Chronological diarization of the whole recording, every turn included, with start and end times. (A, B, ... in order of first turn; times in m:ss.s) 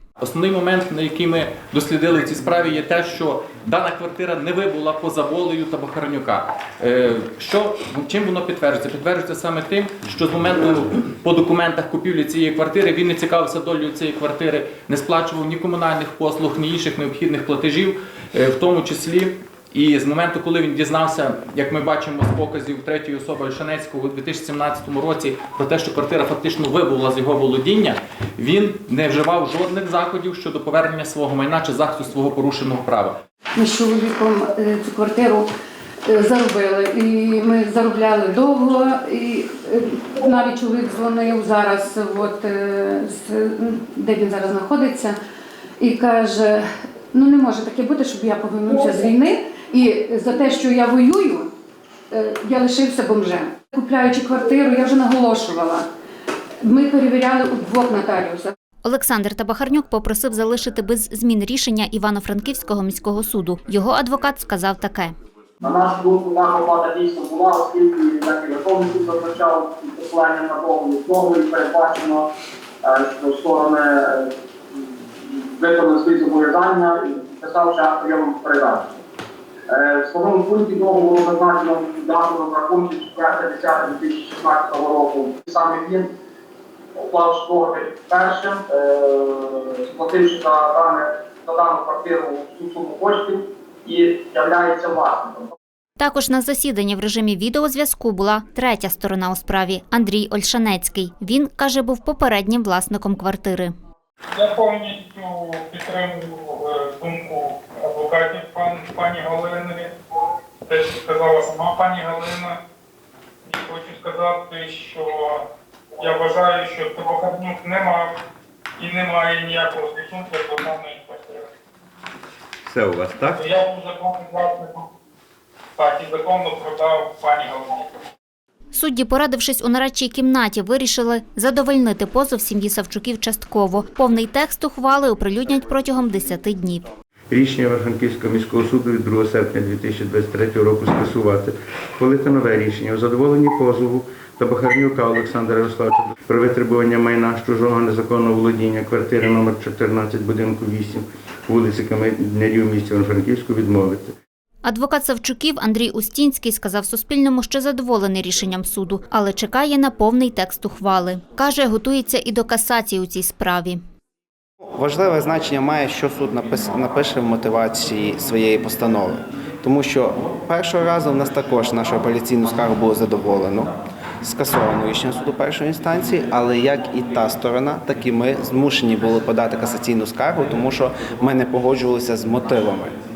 0:00.2-0:33.1 A
0:33.6-0:35.5 B
0:36.1-0:45.2 B
0:45.8-0:51.5 B
0:52.1-0:55.8 B
0:56.6-0:58.5 B
0:58.8-1:05.1 C
1:05.6-1:12.2 D
1:12.8-1:14.3 D
1:15.2-1:18.9 D
1:19.7-1:26.1 D
1:27.0-1:35.5 D
1:36.0-1:43.7 C
1:44.3-1:49.9 E
1:50.7-1:52.6 E
1:53.5-1:55.4 E
1:56.0-1:58.1 E
1:58.8-2:01.5 E
2:02.7-2:03.2 F
2:03.2-2:04.8 E
2:05.8-2:07.9 E
2:08.7-2:16.9 C
2:17.3-2:34.1 F
2:34.6-2:43.8 C
2:44.7-3:03.0 G